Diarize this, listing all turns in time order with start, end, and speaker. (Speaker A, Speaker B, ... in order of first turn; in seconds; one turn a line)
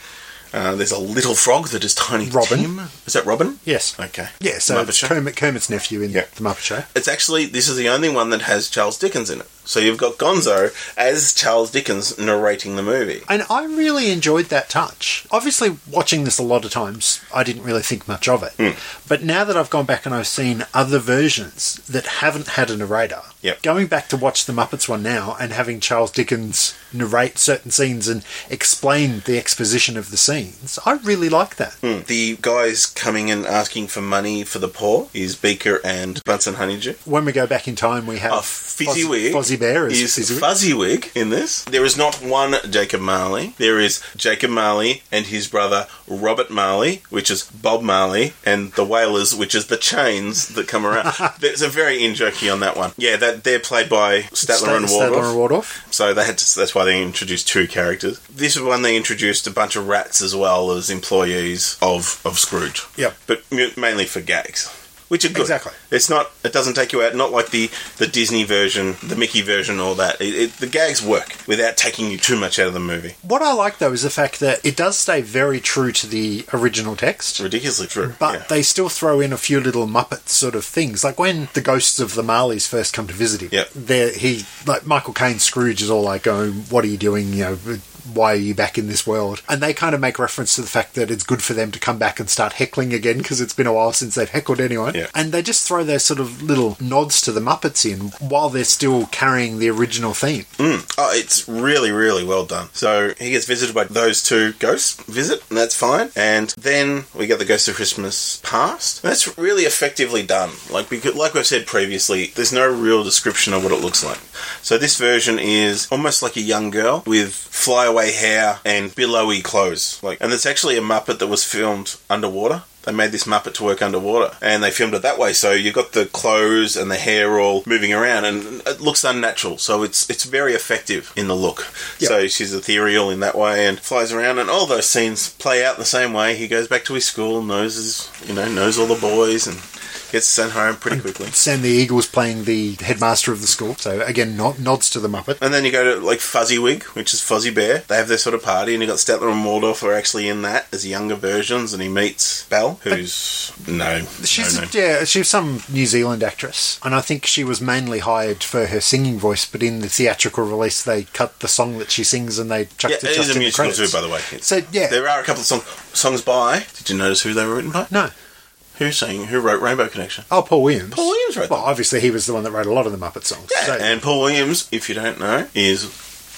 Speaker A: 0.5-5.1
Speaker B: 2.2-2.7
Speaker B: 3.6-6.8
Speaker A: 6.9-13.2
Speaker B: 13.3-31.8
Speaker A: 31.8-37.0
Speaker B: 37.0-40.5
Speaker A: 38.3-55.3
Speaker B: 54.4-55.8
Speaker A: 55.9-73.2
Speaker B: 65.3-65.8
Speaker B: 73.2-77.4
Speaker A: 77.4-78.5
Speaker B: 78.1-100.5
Speaker A: 100.6-141.3
Speaker B: 140.9-145.4
Speaker A: 145.4-154.7
Speaker B: 154.2-165.0
Speaker A: 162.9-167.9
Speaker A: 168.8-170.3
Speaker B: 170.3-174.0
Speaker A: 170.9-171.7
Speaker A: 173.5-175.9